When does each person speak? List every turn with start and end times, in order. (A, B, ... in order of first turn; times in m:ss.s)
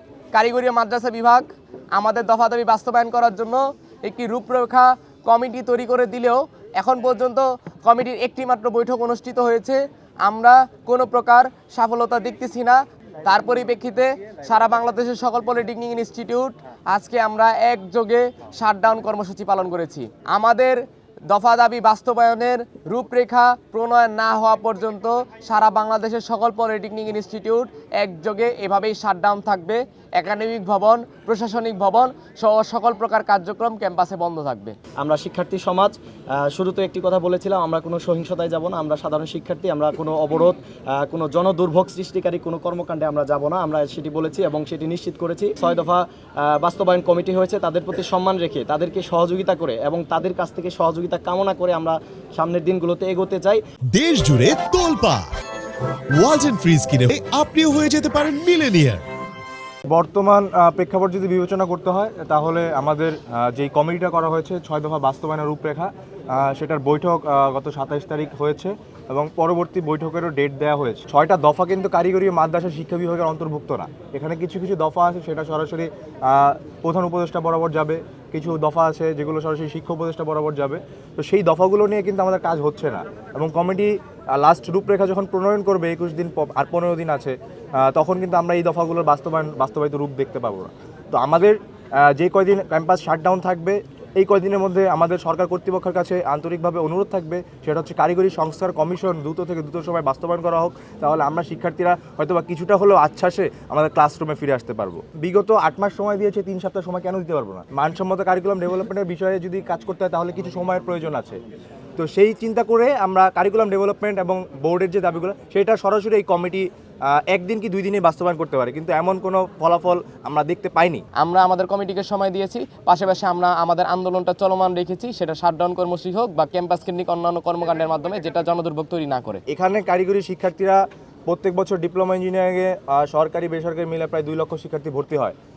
0:00.3-0:34.8 A
0:35.0-0:53.6 B
0:53.9-0:55.3 C
0:56.1-0:59.0 C
0:59.9-1:51.4 D
1:52.0-2:01.0 D
2:01.2-2:09.4 A
2:09.5-2:15.3 D